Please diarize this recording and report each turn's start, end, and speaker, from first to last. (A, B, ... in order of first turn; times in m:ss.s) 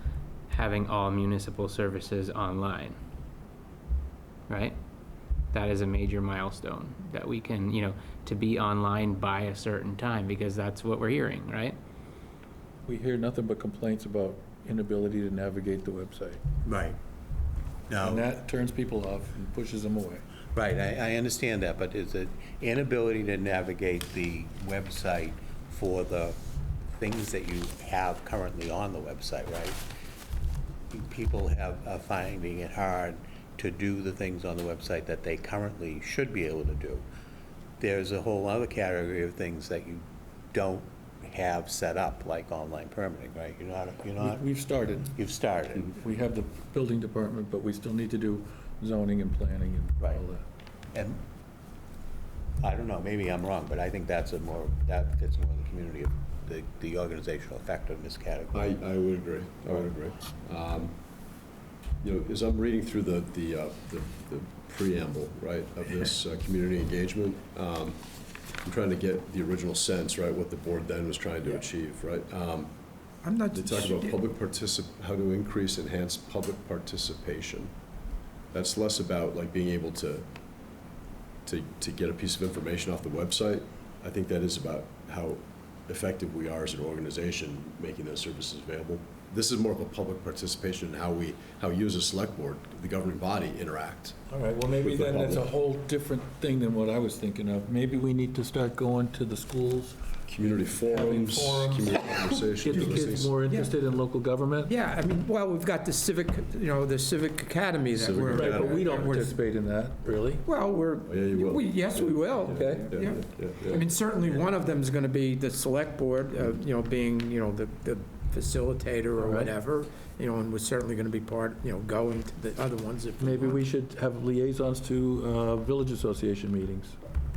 0:00.5-0:03.0 A
0:04.5-0:04.8 A
0:05.5-0:11.8 A
0:12.8-0:16.4 B
0:16.6-0:17.0 C
0:17.9-0:18.3 C
0:18.0-0:20.2 B
0:20.5-0:26.4 C
0:26.9-0:29.8 C
0:30.9-0:37.0 C
0:37.8-0:44.4 C
0:44.2-0:45.1 B
0:45.1-0:46.0 C
0:45.8-0:50.4 B
0:50.9-0:51.2 C
0:52.6-0:58.8 C
0:58.5-1:00.9 D
1:02.0-1:08.0 D
1:08.6-1:12.7 D
1:13.2-1:14.2 E
1:13.5-1:17.7 D
1:18.5-1:20.3 D
1:21.4-1:34.2 D
1:34.3-1:40.0 B
1:34.8-1:35.5 D
1:40.3-1:43.4 D
1:40.9-1:44.7 B
1:42.7-1:43.7 E
1:44.6-1:49.4 E
1:47.9-1:49.0 D
1:48.2-1:50.4 B
1:50.4-2:03.7 E
1:51.0-1:54.0 D
1:52.5-1:53.0 B
1:59.2-1:59.5 B
2:03.2-2:07.0 B